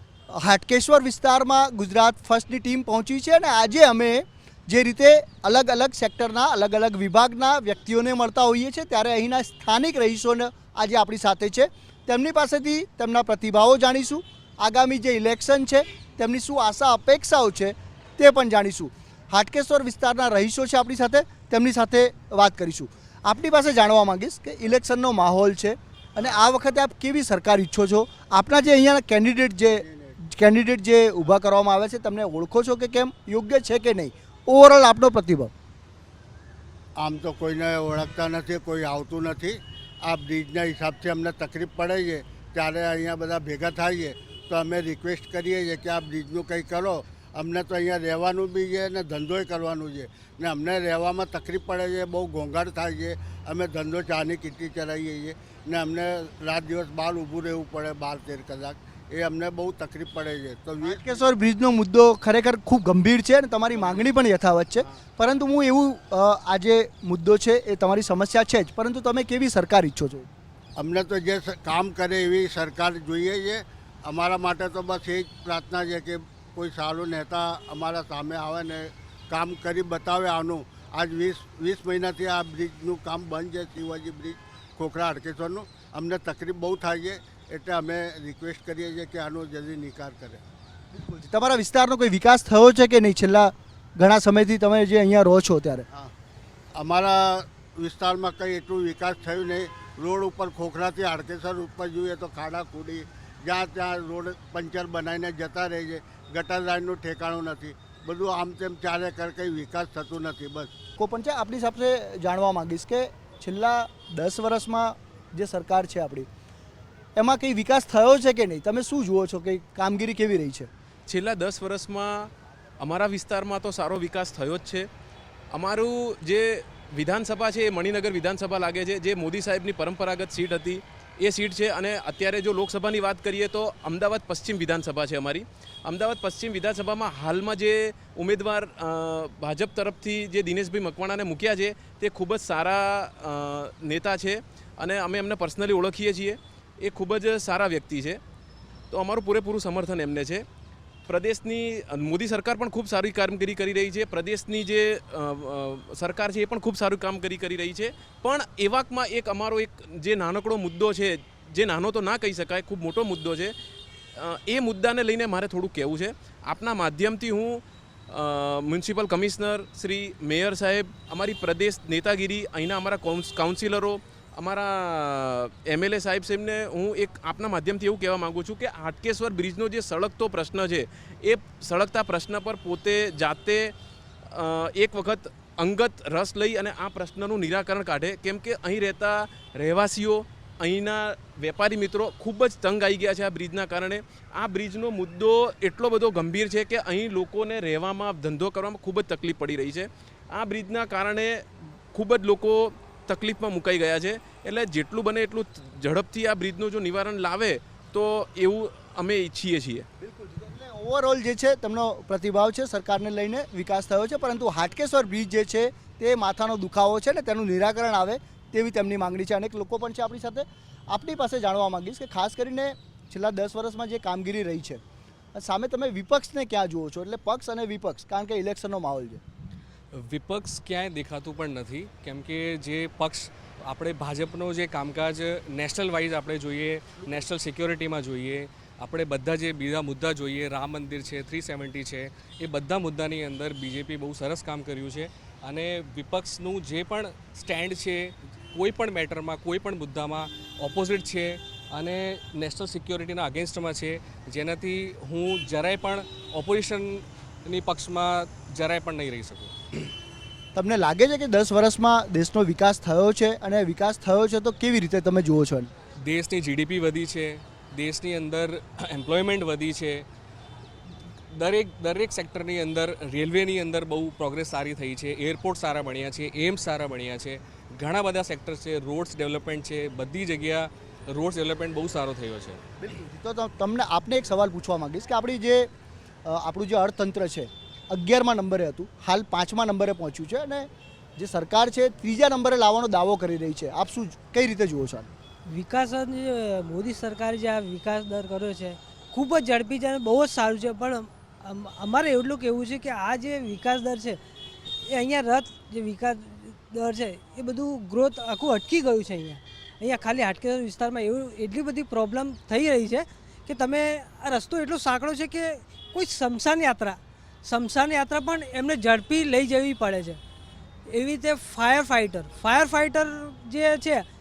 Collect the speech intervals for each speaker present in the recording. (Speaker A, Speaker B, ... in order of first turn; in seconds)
Speaker A: 0.3-35.5, 60.8-70.3, 90.9-95.9, 111.0-116.3, 117.2-120.7, 210.0-224.8, 225.3-229.2, 260.5-265.7, 282.8-285.7, 286.3-295.1
Speaker B: 29.6-30.2, 37.0-61.2, 63.8-64.0, 70.8-90.4, 96.8-110.7
Speaker C: 121.1-124.9, 125.5-148.2, 148.9-150.4, 151.1-163.5, 164.2-183.7, 184.3-209.9
Speaker D: 229.9-259.6, 266.1-270.0, 271.3-282.6
Speaker E: 295.5-304.2, 304.9-320.2, 320.9-324.1